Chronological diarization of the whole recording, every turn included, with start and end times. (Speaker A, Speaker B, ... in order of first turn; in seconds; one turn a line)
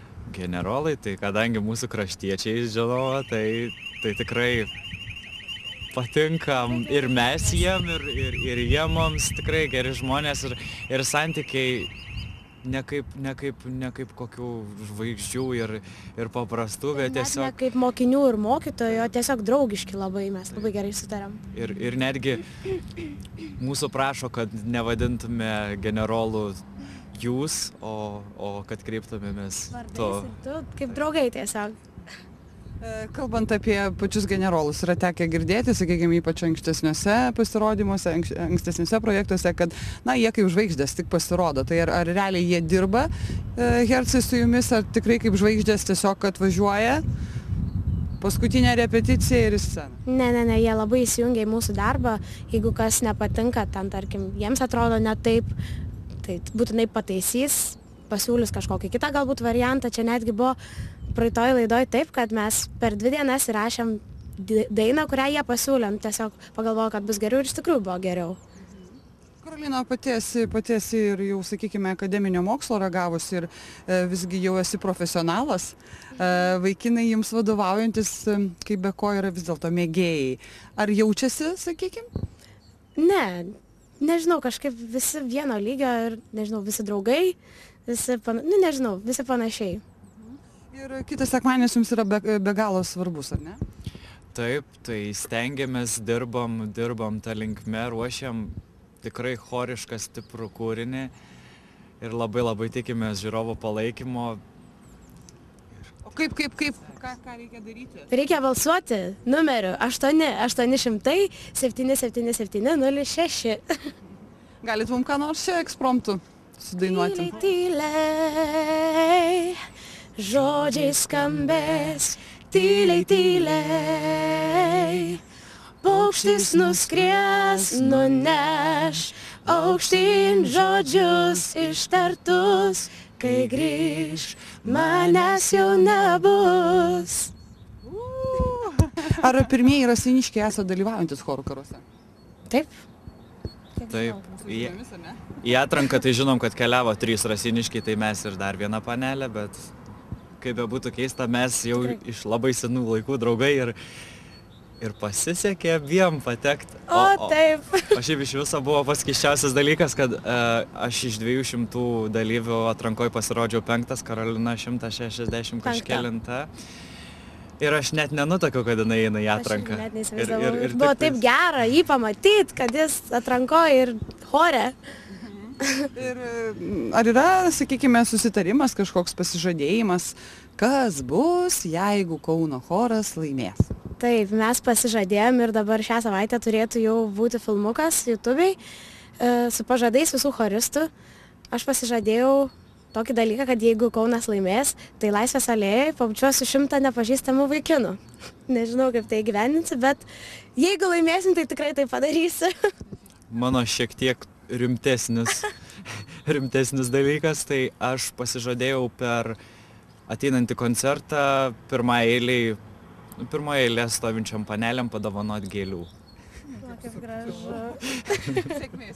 Speaker A: 0.3-4.7
Speaker A: 5.9-11.9
Speaker B: 6.7-7.4
Speaker A: 12.6-17.6
Speaker B: 16.9-21.4
Speaker A: 18.9-19.1
Speaker A: 21.5-22.4
Speaker A: 23.6-26.6
Speaker A: 27.1-30.3
Speaker B: 29.7-31.8
Speaker C: 32.8-47.0
Speaker C: 48.2-50.0
Speaker B: 50.1-55.5
Speaker B: 56.2-60.6
Speaker B: 61.1-68.4
Speaker C: 69.4-82.1
Speaker B: 83.0-89.8
Speaker C: 90.7-93.6
Speaker A: 94.3-101.1
Speaker A: 102.0-104.4
Speaker C: 106.0-108.1
Speaker B: 108.1-113.7
Speaker C: 114.6-117.4
Speaker B: 116.8-119.6
Speaker B: 120.2-125.2
Speaker B: 125.8-137.3
Speaker C: 137.9-138.5
Speaker C: 139.2-141.8
Speaker A: 143.9-144.8
Speaker C: 144.5-145.2
Speaker A: 145.3-149.7
Speaker A: 150.4-153.8
Speaker B: 151.7-152.0
Speaker A: 154.8-157.4
Speaker B: 156.9-158.0
Speaker A: 157.9-166.5
Speaker B: 165.6-166.1
Speaker A: 167.6-171.2
Speaker B: 169.3-174.8
Speaker C: 175.4-183.7
Speaker B: 175.6-175.9
Speaker B: 184.0-188.6
Speaker B: 189.2-190.9
Speaker B: 191.5-200.1
Speaker B: 200.6-202.5
Speaker A: 203.3-209.4
Speaker A: 210.1-212.6
Speaker A: 213.2-215.9
Speaker B: 216.8-218.5